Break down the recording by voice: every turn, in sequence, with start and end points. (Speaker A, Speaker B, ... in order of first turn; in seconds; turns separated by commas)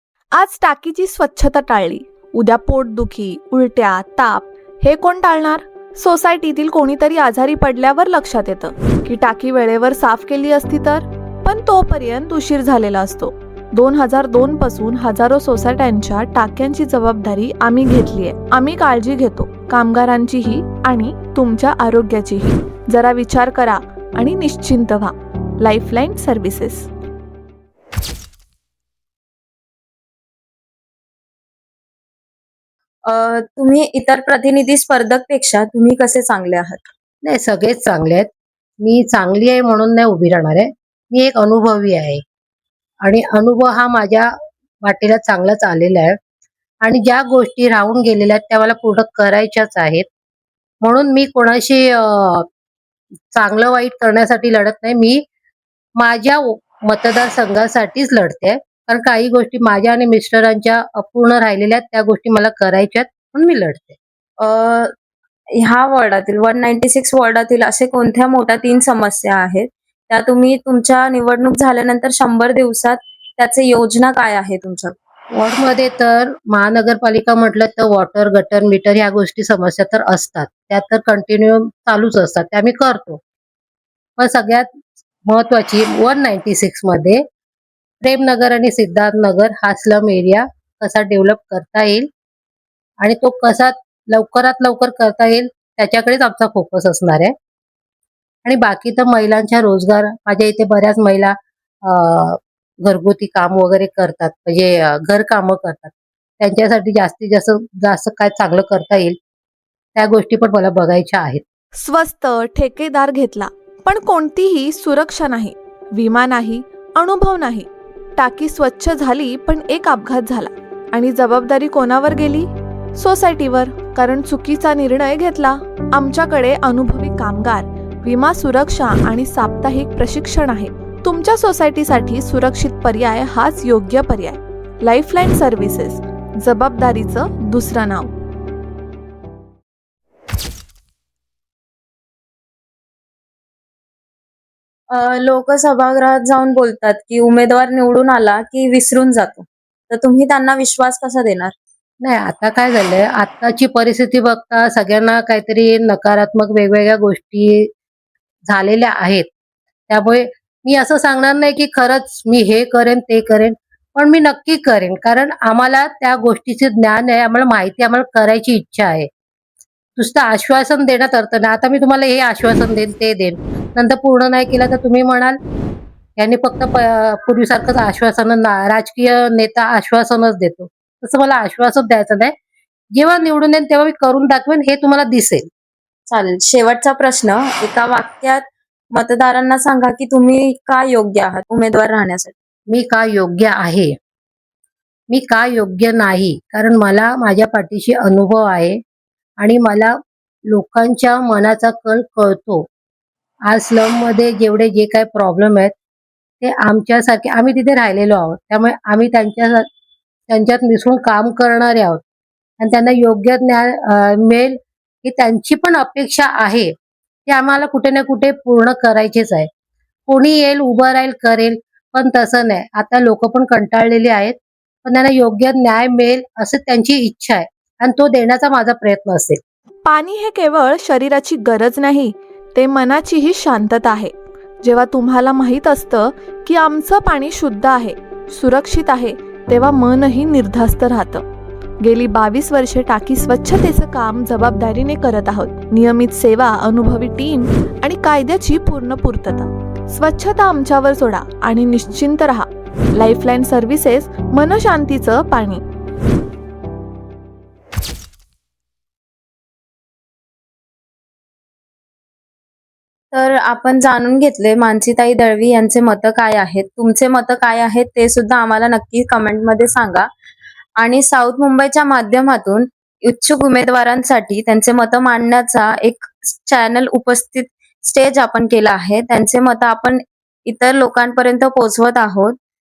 Speaker A: 0.3-26.9, Speaker B: 33.0-36.9, Speaker C: 37.2-38.3, Speaker C: 38.8-42.2, Speaker C: 43.0-44.3, Speaker C: 44.8-46.2, Speaker C: 46.8-50.1, Speaker C: 50.8-52.5, Speaker C: 53.3-55.2, Speaker C: 56.0-64.0, Speaker B: 64.4-64.9, Speaker B: 65.6-75.0, Speaker C: 75.4-83.2, Speaker C: 84.2-84.7, Speaker C: 85.3-87.2, Speaker C: 88.0-92.1, Speaker C: 93.0-97.3, Speaker C: 98.5-101.3, Speaker C: 101.9-109.2, Speaker C: 110.0-111.4, Speaker A: 111.8-138.1, Speaker B: 144.9-151.5, Speaker C: 152.0-157.7, Speaker C: 158.5-159.3, Speaker C: 159.9-169.1, Speaker C: 170.0-175.4, Speaker C: 176.2-182.3, Speaker C: 183.0-185.5, Speaker B: 186.1-192.3, Speaker C: 192.7-193.9, Speaker C: 195.1-198.8, Speaker C: 199.4-200.0, Speaker C: 200.5-202.7, Speaker C: 203.5-205.7, Speaker C: 206.4-209.7, Speaker C: 210.3-212.0, Speaker C: 212.6-216.7, Speaker C: 217.3-219.5, Speaker C: 220.1-229.4, Speaker A: 229.8-241.3, Speaker A: 241.8-255.6, Speaker B: 263.1-270.1, Speaker B: 270.8-282.4